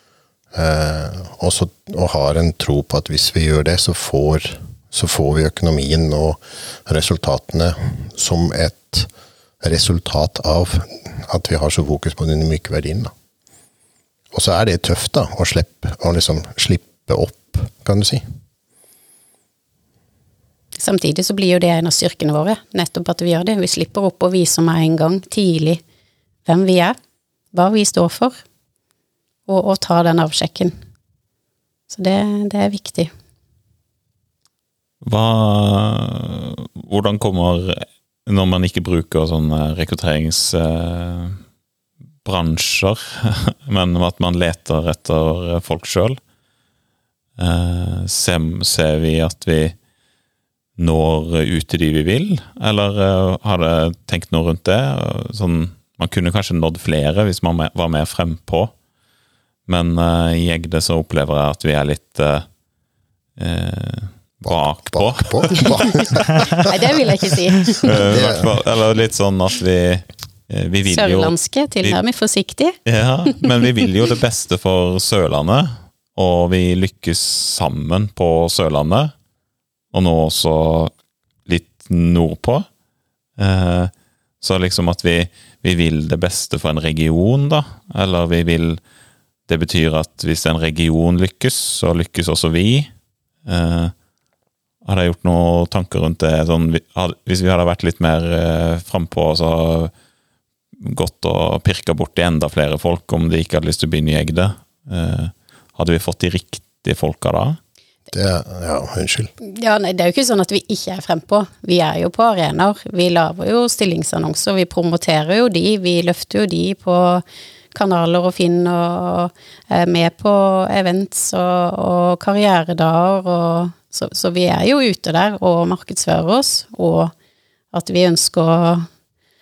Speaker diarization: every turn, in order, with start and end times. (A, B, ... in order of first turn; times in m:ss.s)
0:00.5-0:09.1 A
0:09.6-0:13.1 A
0:14.3-0:18.2 A
0:20.8-0:25.8 B
0:26.4-0:27.0 B
0:27.5-0:28.4 B
0:29.5-0:30.7 B
0:31.9-0:33.1 B
0:35.0-0:41.4 C
0:42.2-0:46.2 C
0:47.4-0:49.8 C
0:50.8-0:58.7 C
0:59.6-1:02.4 C
1:03.4-1:06.6 C
1:04.4-1:06.7 A
1:06.6-1:08.0 B
1:07.7-1:12.0 C
1:08.1-1:08.5 A
1:10.8-1:12.7 B
1:12.8-1:19.1 C
1:19.9-1:20.9 C
1:21.4-1:22.7 C
1:23.4-1:28.8 C
1:29.5-1:32.9 C
1:33.4-1:33.9 C
1:34.8-1:39.9 C
1:40.8-1:47.6 C
1:48.1-1:49.3 A
1:49.4-2:07.1 B
2:07.7-2:08.9 B